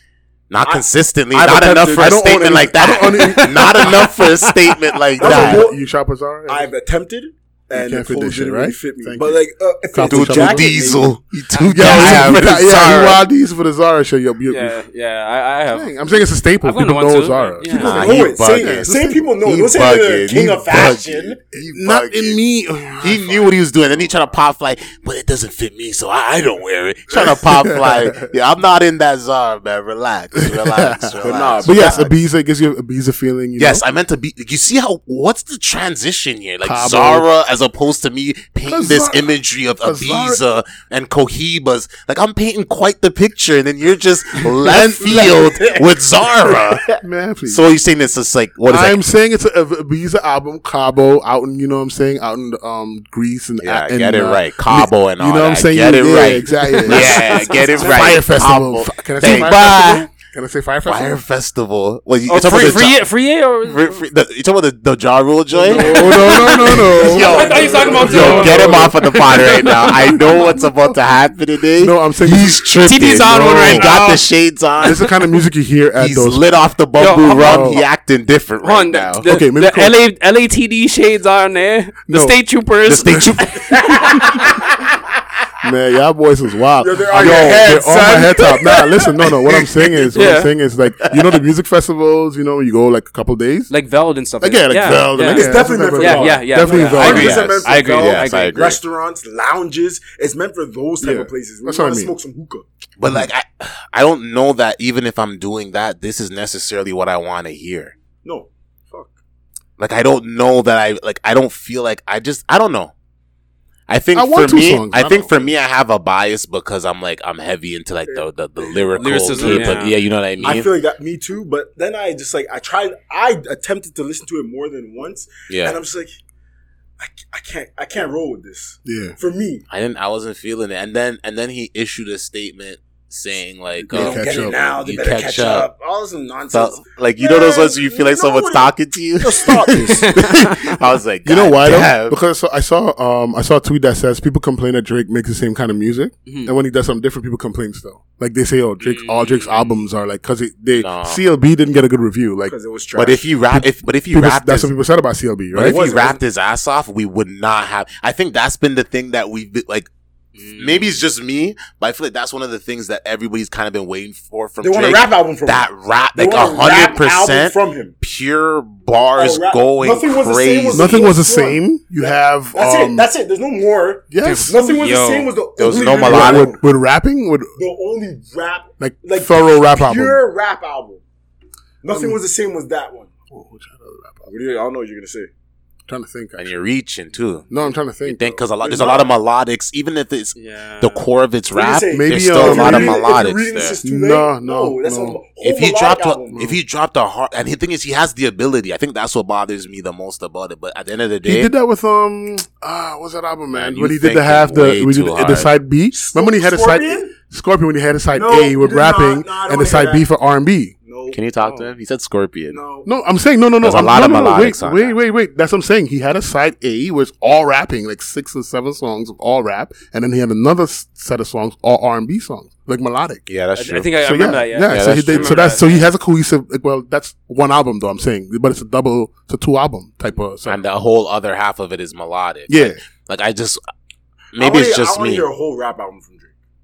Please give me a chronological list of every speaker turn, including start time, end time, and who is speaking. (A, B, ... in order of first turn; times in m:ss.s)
0:00.5-0:05.6 A
0:00.6-0:02.2 B
0:01.3-0:04.0 C
0:03.0-0:05.0 D
0:05.2-0:05.8 B
0:05.2-0:06.7 C
0:06.5-0:11.1 B
0:07.7-0:09.4 C
0:09.9-0:10.8 C
0:10.0-0:13.2 A
0:11.6-0:12.4 D
0:11.7-0:14.8 C
0:14.5-0:18.2 D
0:15.7-0:19.3 C
0:17.7-0:22.4 A
0:17.8-0:21.4 B
0:21.5-0:24.1 C
0:23.0-0:32.0 A
0:27.1-0:28.3 C
0:30.4-0:33.8 C
0:31.2-0:32.2 B
0:33.6-0:49.0 A
0:36.6-0:37.3 C
0:38.7-0:39.2 C
0:39.8-0:40.4 C
0:44.8-0:45.4 C
0:46.9-0:47.6 C
0:48.6-1:01.2 C
0:53.6-1:00.0 A
0:56.7-0:58.2 D
0:59.2-1:00.1 D
1:00.8-1:03.1 A
1:02.3-1:04.0 D
1:03.6-1:15.1 A
1:05.6-1:11.0 C
1:05.7-1:10.5 D
1:06.9-1:08.9 B
1:11.8-1:13.9 C
1:12.8-1:14.2 D
1:14.8-1:15.1 D
1:14.8-1:16.4 C
1:16.0-1:19.3 A
1:17.0-1:17.8 D
1:17.3-1:17.8 C
1:18.6-1:23.6 D
1:19.2-1:20.0 C
1:22.1-1:22.4 C
1:22.9-1:24.2 A
1:23.6-1:24.6 B
1:25.6-1:33.7 C
1:26.8-1:28.8 B
1:27.2-1:27.7 A
1:30.2-1:30.5 D
1:33.7-1:38.6 D
1:34.4-1:37.4 C
1:35.2-1:42.7 B
1:37.0-1:38.8 A
1:41.0-1:42.1 C
1:43.0-1:47.9 A
1:48.2-1:49.2 B
1:49.8-1:52.9 A
1:53.9-2:00.7 A
1:54.2-1:55.5 C
1:58.1-1:59.9 B
1:59.0-2:00.6 D
2:00.4-2:06.2 B
2:05.5-2:05.8 A
2:07.0-2:09.7 B
2:08.8-2:09.2 C
2:09.7-2:15.7 A
2:13.8-2:20.2 B
2:13.9-2:14.6 C
2:16.5-2:22.2 A
2:20.1-2:20.6 D
2:21.2-2:32.6 C
2:26.3-2:26.5 D
2:28.8-2:29.8 D
2:30.7-2:31.2 A
2:32.5-2:33.3 B
2:33.0-2:34.7 A
2:33.5-2:35.8 C
2:35.5-2:39.9 A
2:35.6-2:36.2 B
2:40.4-2:40.9 D
2:40.6-2:51.1 A
2:44.6-2:48.0 B
2:49.2-2:56.6 B
2:50.7-2:53.1 C
2:54.1-2:54.6 C
2:54.2-2:55.3 D
2:55.6-2:56.5 A
2:56.0-2:57.5 C
2:57.6-3:01.0 B
2:58.8-3:00.2 C
3:01.8-3:03.1 B
3:01.9-3:02.2 C
3:03.3-3:04.3 C
3:04.3-3:05.3 B
3:05.9-3:06.5 C
3:06.4-3:07.5 A
3:07.5-3:08.4 C
3:08.0-3:13.8 A
3:08.6-3:09.2 B
3:10.4-3:11.1 D
3:11.5-3:16.5 B
3:11.9-3:13.3 C
3:13.8-3:15.2 C
3:15.4-3:21.5 A
3:21.2-3:30.7 C
3:23.5-3:25.5 A
3:25.9-3:27.2 B
3:28.2-3:30.1 B
3:30.8-3:31.7 B
3:31.1-3:32.6 A
3:32.5-3:32.9 B
3:32.8-3:43.2 C
3:33.6-3:35.0 A
3:43.3-3:44.0 A
3:43.6-3:45.8 D
3:44.0-3:50.6 C
3:44.6-3:45.6 A
3:50.4-3:53.6 A
3:52.5-3:52.8 C
3:54.3-3:55.3 A
3:54.4-3:56.3 B